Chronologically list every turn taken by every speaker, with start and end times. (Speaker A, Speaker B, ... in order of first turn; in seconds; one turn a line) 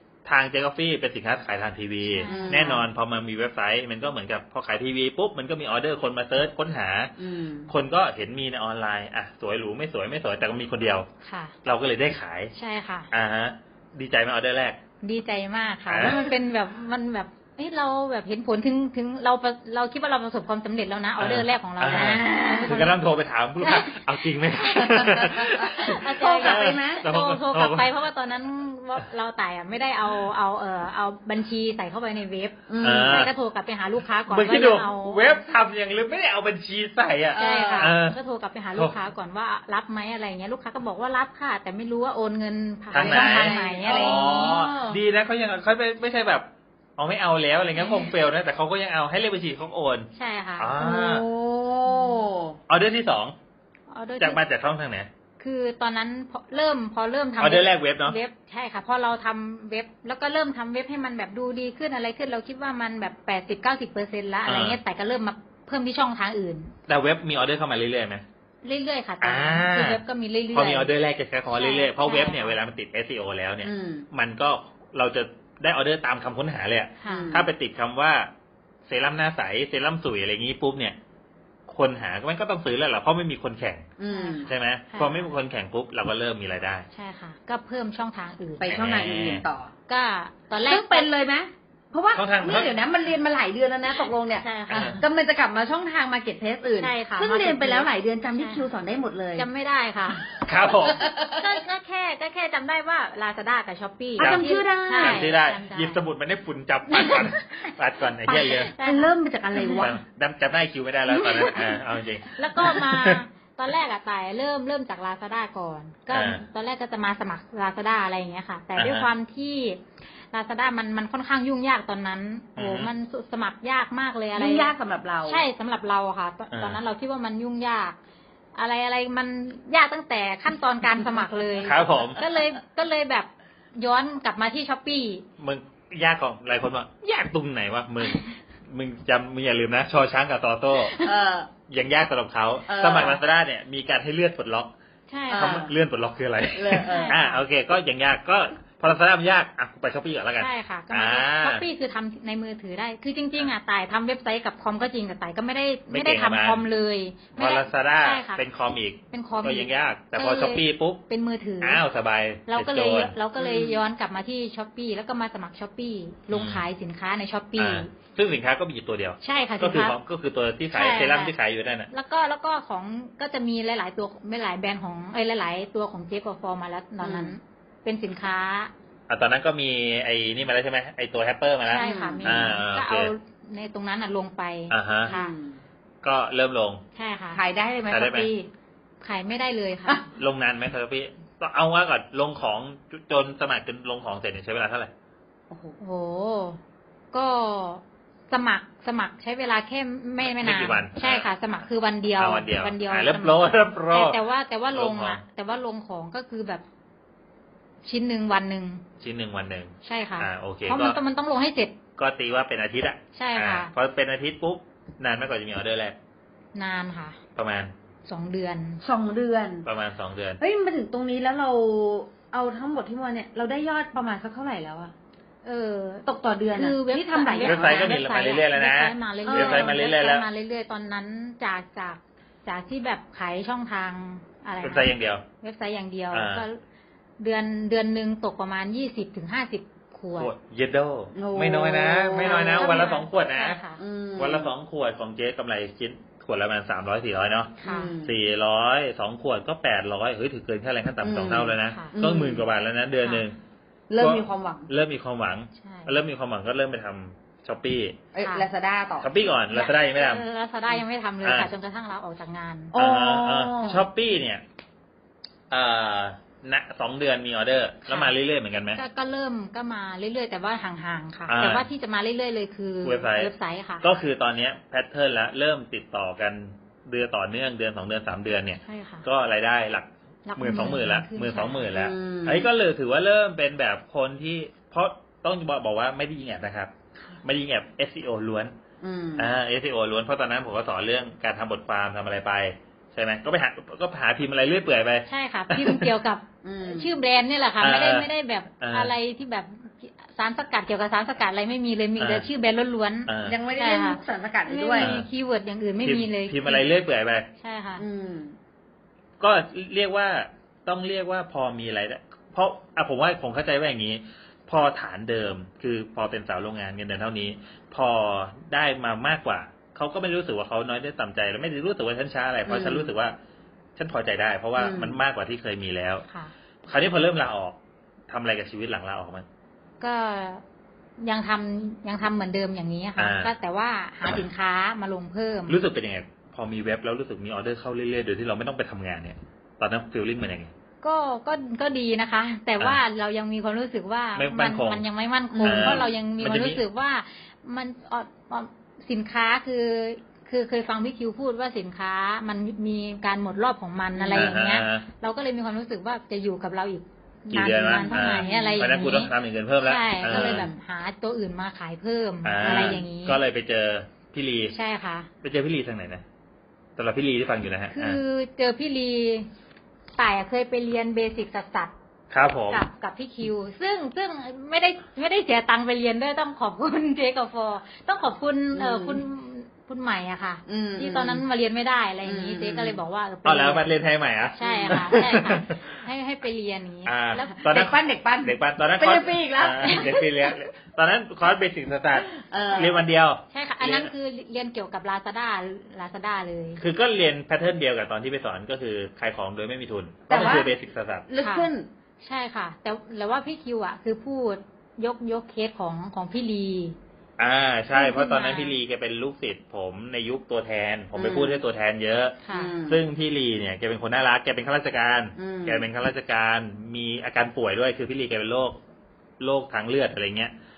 Speaker A: 0.2-7.1
Speaker B: 2.1-2.7
Speaker C: 2.3-2.8
Speaker C: 7.2-7.7
Speaker A: 7.7-11.1
Speaker B: 11.2-11.5
Speaker A: 11.6-12.5
Speaker B: 12.6-13.1
Speaker A: 13.1-14.8
Speaker B: 15.0-23.0
Speaker A: 15.9-16.2
Speaker A: 21.2-27.9
Speaker C: 22.1-22.7
Speaker B: 23.6-35.4
Speaker C: 25.9-27.1
Speaker C: 32.7-33.3
Speaker A: 32.8-33.3
Speaker A: 34.3-38.2
Speaker C: 37.3-37.9
Speaker B: 37.4-44.6
Speaker C: 42.9-45.0
Speaker A: 42.9-51.3
Speaker B: 47.8-48.1
Speaker B: 50.1-50.8
Speaker C: 50.8-52.6
Speaker B: 51.9-52.2
Speaker A: 52.7-53.4
Speaker B: 53.9-54.4
Speaker A: 54.2-55.1
Speaker B: 55.4-66.7
Speaker A: 57.4-58.2
Speaker A: 64.5-64.8
Speaker A: 66.9-68.2
Speaker B: 68.6-70.9
Speaker A: 69.2-78.3
Speaker B: 71.5-72.6
Speaker C: 73.6-74.1
Speaker B: 77.0-77.3
Speaker C: 77.1-77.5
Speaker A: 78.9-81.0
Speaker A: 81.7-83.9
Speaker C: 84.0-84.5
Speaker B: 84.1-85.3
Speaker A: 84.5-86.9
Speaker B: 86.9-88.7
Speaker C: 88.6-89.7
Speaker A: 88.7-89.5
Speaker B: 89.9-91.1
Speaker C: 90.6-99.5
Speaker A: 92.1-92.7
Speaker B: 94.3-95.0
Speaker A: 94.7-95.0
Speaker B: 96.8-98.7
Speaker B: 99.4-100.3
Speaker A: 100.4-101.0
Speaker C: 100.9-101.5
Speaker B: 101.3-106.0
Speaker C: 104.2-105.3
Speaker A: 104.2-108.7
Speaker B: 106.9-107.7
Speaker C: 108.3-110.0
Speaker B: 108.7-109.8
Speaker A: 109.7-113.2
Speaker B: 111.1-111.8
Speaker B: 112.3-119.8
Speaker A: 116.1-116.4
Speaker A: 118.8-119.1
Speaker B: 120.3-124.7
Speaker A: 122.6-122.9
Speaker C: 124.4-125.4
Speaker B: 125.2-128.0
Speaker A: 126.5-126.8
Speaker B: 128.6-135.2
Speaker A: 131.6-132.2
Speaker A: 135.4-141.0
Speaker B: 140.8-141.1
Speaker C: 141.0-141.5
Speaker A: 141.7-144.7
Speaker C: 142.7-143.2
Speaker B: 145.1-145.6
Speaker C: 145.3-145.7
Speaker A: 145.3-151.7
Speaker C: 146.6-147.2
Speaker B: 146.9-147.4
Speaker B: 150.4-158.4
Speaker A: 155.9-156.7
Speaker A: 157.3-161.0
Speaker B: 159.1-161.8
Speaker A: 161.6-163.1
Speaker B: 162.5-167.9
Speaker C: 163.4-163.8
Speaker A: 166.3-166.6
Speaker A: 167.6-171.9
Speaker B: 169.2-170.0
Speaker B: 170.7-171.3
Speaker B: 171.9-178.7
Speaker C: 177.0-177.4
Speaker A: 179.1-183.1
Speaker B: 181.7-185.3
Speaker C: 181.8-182.5
Speaker A: 184.7-185.1
Speaker C: 185.1-185.6
Speaker A: 186.0-186.8
Speaker B: 186.9-187.4
Speaker C: 187.3-188.5
Speaker A: 187.9-188.3
Speaker B: 189.0-190.1
Speaker A: 190.1-194.9
Speaker C: 195.5-195.8
Speaker B: 195.8-196.6
Speaker B: 197.1-206.6
Speaker A: 200.2-201.3
Speaker A: 202.2-204.2
Speaker A: 204.7-205.2
Speaker B: 207.8-208.8
Speaker A: 209.0-211.0
Speaker B: 209.8-211.8
Speaker A: 212.0-216.0
Speaker B: 213.1-213.7
Speaker B: 216.6-217.2
Speaker A: 217.4-217.7
Speaker B: 218.1-218.8
Speaker C: 218.8-219.7
Speaker A: 219.7-220.4
Speaker C: 220.4-224.9
Speaker B: 225.4-236.6
Speaker C: 226.1-228.0
Speaker A: 227.4-230.3
Speaker C: 229.2-229.7
Speaker A: 234.6-235.2
Speaker A: 236.1-236.4
Speaker B: 237.2-240.3
Speaker A: 240.2-243.6
Speaker C: 241.2-242.8
Speaker B: 242.2-243.8
Speaker C: 243.8-244.5
Speaker A: 244.2-253.4
Speaker B: 247.6-247.9
Speaker C: 247.6-248.2
Speaker C: 251.0-252.5
Speaker C: 253.9-254.7
Speaker A: 254.0-258.0
Speaker B: 255.6-255.9
Speaker C: 258.1-259.1
Speaker B: 258.2-258.4
Speaker A: 259.0-260.2
Speaker B: 259.5-262.7
Speaker A: 261.2-261.5
Speaker C: 262.7-263.9
Speaker A: 262.8-264.4
Speaker A: 265.5-268.8
Speaker B: 267.9-268.1
Speaker B: 268.8-273.9
Speaker A: 271.3-271.7
Speaker A: 272.8-286.7
Speaker B: 278.7-279.1
Speaker B: 280.3-281.7
Speaker C: 281.7-282.5
Speaker A: 287.2-288.6
Speaker C: 288.8-289.3
Speaker A: 289.2-295.9
Speaker B: 295.1-306.7
Speaker C: 296.4-296.9
Speaker A: 297.6-298.9
Speaker A: 302.0-302.3
Speaker A: 303.1-303.4
Speaker C: 303.2-304.9
Speaker A: 304.8-305.1
Speaker A: 305.8-307.3
Speaker B: 307.4-307.8
Speaker C: 307.8-308.4
Speaker A: 309.2-323.2
Speaker C: 322.5-322.9
Speaker A: 323.8-326.1
Speaker C: 324.6-325.0
Speaker A: 326.6-327.6
Speaker A: 328.1-329.3
Speaker B: 329.8-330.4
Speaker B: 331.0-335.6
Speaker A: 333.0-333.3
Speaker A: 335.5-340.5
Speaker B: 340.8-363.2
Speaker A: 344.2-344.8
Speaker C: 345.3-345.9
Speaker A: 345.4-346.6
Speaker C: 353.9-354.3
Speaker A: 354.1-354.9
Speaker A: 357.3-360.5
Speaker C: 357.7-358.7
Speaker C: 360.1-360.6
Speaker A: 362.2-364.6
Speaker C: 362.4-362.8
Speaker B: 364.5-365.1
Speaker A: 365.2-366.0
Speaker A: 366.8-368.0
Speaker B: 367.7-369.3
Speaker B: 370.0-371.7
Speaker A: 372.1-372.6
Speaker B: 372.5-383.7
Speaker C: 378.6-379.0
Speaker C: 380.5-381.2
Speaker C: 382.0-382.8
Speaker A: 383.2-385.6
Speaker B: 384.3-387.4
Speaker C: 384.4-385.0
Speaker A: 386.9-393.9
Speaker C: 387.4-390.3
Speaker C: 392.1-392.8
Speaker B: 393.3-396.6
Speaker A: 396.6-401.1
Speaker C: 400.1-401.7
Speaker B: 401.2-401.5
Speaker B: 402.0-406.8
Speaker A: 407.2-418.6
Speaker B: 407.7-408.6
Speaker C: 410.9-411.4
Speaker B: 412.2-412.5
Speaker C: 412.3-412.8
Speaker C: 415.2-415.7
Speaker A: 419.2-420.3